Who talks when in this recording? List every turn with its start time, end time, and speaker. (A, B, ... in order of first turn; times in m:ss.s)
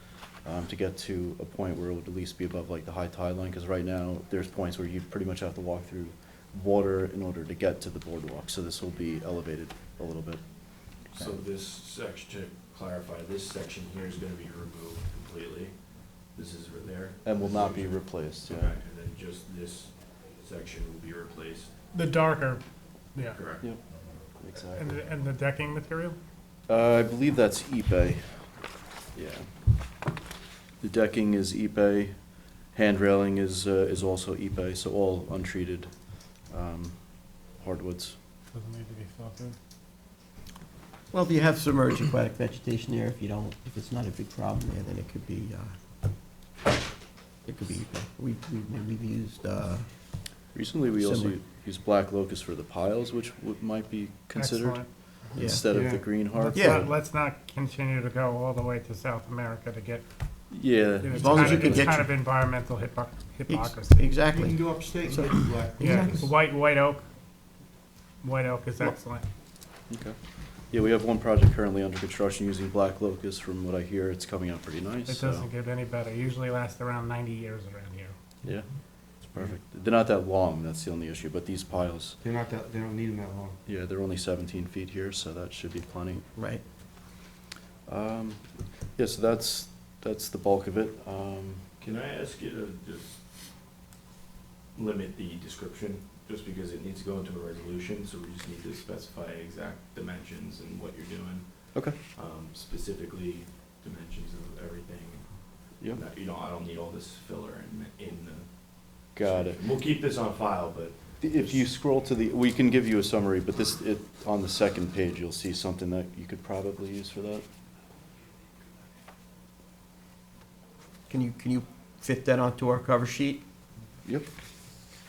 0:00.4-0:11.2 A
0:11.1-0:21.7 B
0:17.2-0:18.8 A
0:21.9-0:22.6 C
0:23.2-0:23.4 C
0:23.3-0:23.7 B
0:24.4-0:25.0 A
0:24.8-0:26.2 C
0:26.7-0:28.5 A
0:29.2-0:29.5 A
0:30.8-0:32.2 A
0:32.7-0:38.2 A
0:38.5-0:39.6 C
0:41.1-0:45.7 D
0:47.4-0:49.9 D
0:50.5-0:56.7 A
0:51.0-0:51.4 D
0:54.3-0:54.9 C
0:55.4-0:55.7 D
0:55.6-0:56.6 E
0:56.4-1:00.0 C
0:56.5-0:56.8 D
1:00.5-1:02.0 A
1:01.0-1:04.1 C
1:01.1-1:02.1 D
1:03.5-1:06.3 D
1:04.3-1:06.3 E
1:05.8-1:07.0 C
1:08.2-1:09.2 C
1:09.9-1:10.2 A
1:10.7-1:15.5 A
1:15.1-1:18.1 C
1:19.2-1:22.2 A
1:22.2-1:23.6 E
1:23.7-1:26.2 A
1:26.4-1:26.6 D
1:27.9-1:31.6 A
1:31.8-1:33.2 B
1:34.8-1:51.6 B
1:49.2-1:49.6 A
1:51.2-1:57.4 A
2:01.1-2:03.4 D